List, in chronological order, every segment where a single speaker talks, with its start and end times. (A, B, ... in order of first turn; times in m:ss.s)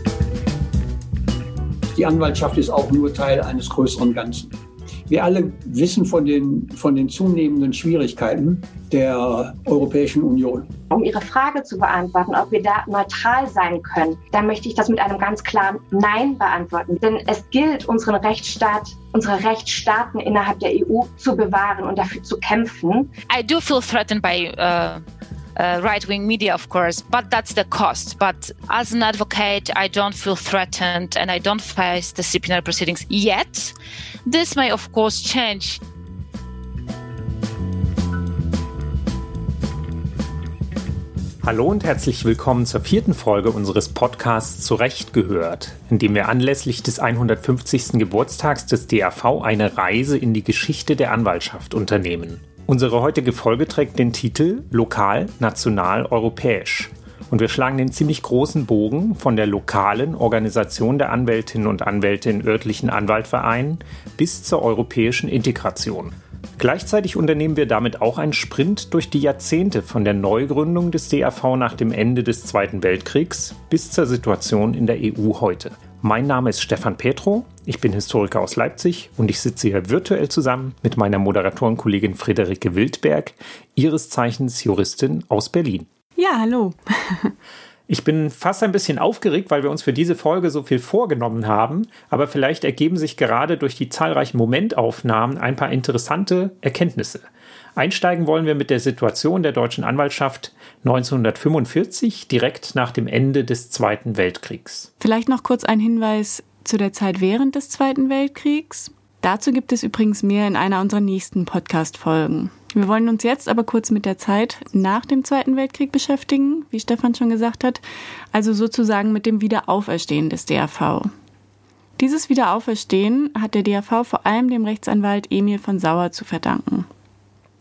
0:01.9-0:04.5 A
0:05.1-0:10.7 A
0:10.9-0:23.1 B
0:23.3-0:25.0 C
0:25.6-0:35.8 C
0:41.4-1:25.9 D
1:26.2-1:27.3 E
1:27.9-1:44.9 D
1:45.0-1:57.8 E
1:58.3-2:01.1 E
2:02.0-2:06.9 E